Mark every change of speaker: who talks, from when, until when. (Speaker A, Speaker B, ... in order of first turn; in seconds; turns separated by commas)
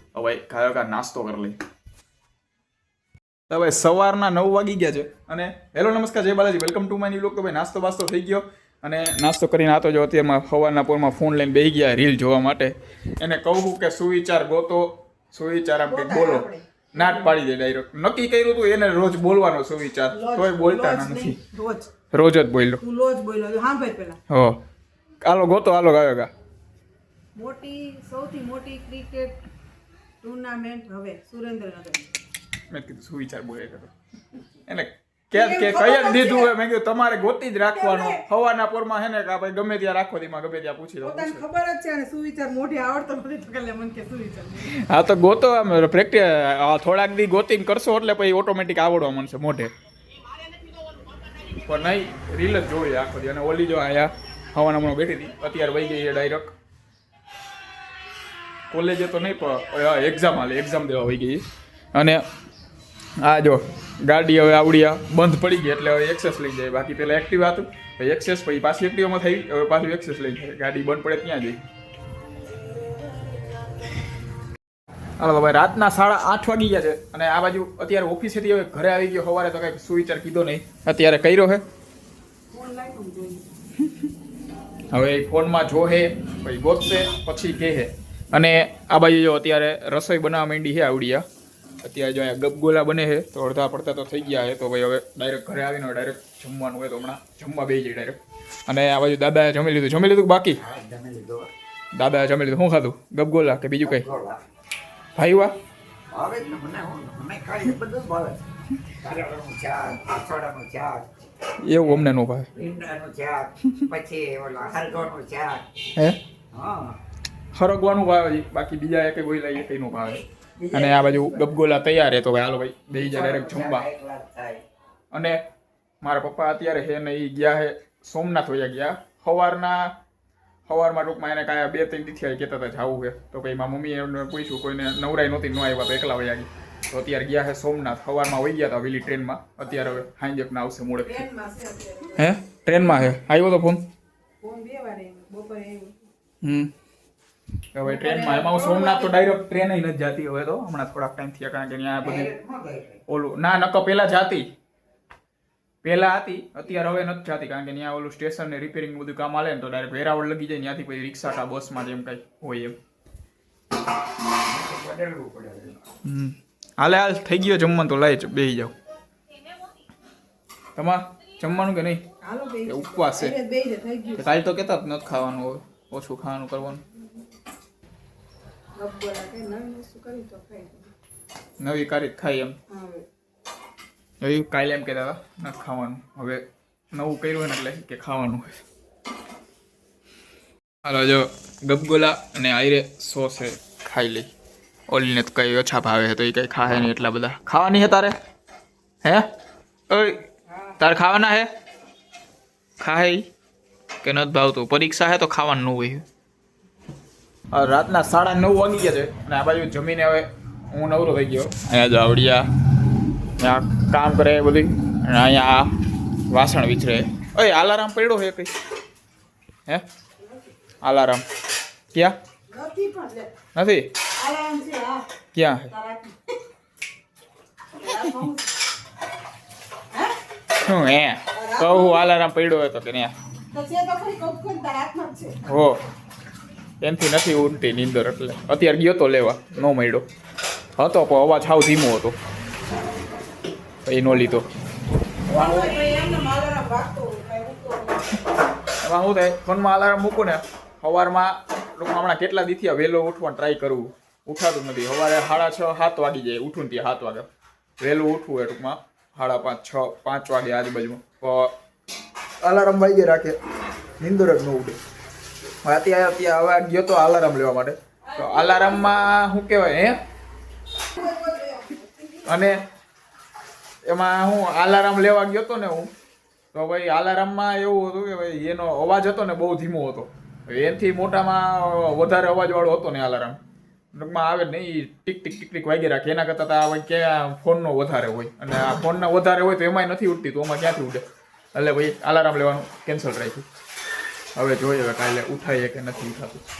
Speaker A: 0.1-1.6, Speaker A: 3.5-21.4, Speaker B: 15.9-17.3, Speaker B: 20.1-21.9, Speaker A: 22.1-22.8, Speaker B: 22.8-24.2, Speaker A: 24.3-24.6, Speaker A: 25.2-26.3, Speaker B: 27.3-29.4, Speaker B: 30.2-32.1, Speaker A: 32.7-33.9, Speaker A: 34.6-41.4, Speaker B: 35.3-36.5, Speaker B: 37.7-38.2, Speaker B: 41.0-44.7, Speaker A: 44.6-49.7, Speaker A: 51.6-56.5, Speaker A: 58.7-61.4, Speaker A: 61.9-62.2, Speaker A: 63.2-71.6, Speaker A: 75.2-81.6, Speaker B: 82.5-83.5, Speaker A: 84.9-91.2, Speaker A: 91.8-100.6, Speaker C: 100.6-101.5, Speaker A: 101.9-104.0, Speaker C: 103.8-104.4, Speaker A: 105.2-105.5, Speaker C: 106.1-111.1, Speaker A: 111.6-112.5, Speaker C: 111.8-115.7, Speaker C: 116.5-117.0, Speaker A: 117.5-123.9, Speaker C: 120.6-121.5, Speaker C: 122.9-124.6, Speaker A: 125.1-125.4, Speaker A: 126.0-129.9, Speaker A: 130.7-141.2, Speaker B: 141.0-142.3, Speaker A: 142.2-143.8, Speaker B: 144.4-146.1, Speaker A: 146.4-146.7, Speaker A: 147.7-152.3, Speaker B: 147.8-149.1, Speaker C: 152.0-153.0, Speaker A: 153.1-154.5, Speaker A: 155.8-162.8, Speaker C: 164.4-165.8, Speaker A: 166.0-168.7, Speaker A: 170.8-172.0, Speaker B: 172.2-174.2, Speaker A: 172.6-173.3, Speaker A: 174.2-176.8, Speaker B: 178.8-180.9, Speaker A: 181.6-182.6, Speaker B: 182.7-183.1, Speaker A: 184.2-188.6, Speaker A: 190.8-194.3, Speaker A: 194.9-198.2, Speaker A: 199.0-199.3, Speaker A: 199.9-200.2, Speaker A: 200.8-201.5, Speaker A: 202.8-203.3, Speaker A: 204.0-206.1, Speaker A: 207.5-212.5, Speaker A: 213.4-215.7, Speaker A: 216.3-218.5, Speaker A: 220.8-221.2, Speaker B: 222.5-223.3, Speaker A: 223.5-223.9, Speaker B: 224.1-225.0, Speaker A: 225.3-225.7, Speaker B: 225.7-226.3, Speaker B: 227.7-228.5, Speaker A: 230.6-233.1, Speaker B: 231.3-232.1, Speaker B: 233.5-235.4, Speaker A: 235.4-235.8, Speaker A: 236.8-240.1, Speaker A: 240.8-242.2, Speaker A: 243.8-244.5, Speaker B: 245.3-248.2, Speaker A: 248.8-257.2, Speaker A: 257.8-261.5, Speaker A: 262.4-263.4, Speaker A: 264.0-264.8, Speaker A: 265.6-270.0, Speaker B: 268.2-268.7, Speaker B: 270.9-272.3, Speaker A: 272.2-272.6, Speaker A: 273.9-275.9, Speaker A: 276.5-283.4, Speaker A: 283.9-293.5, Speaker A: 294.3-296.4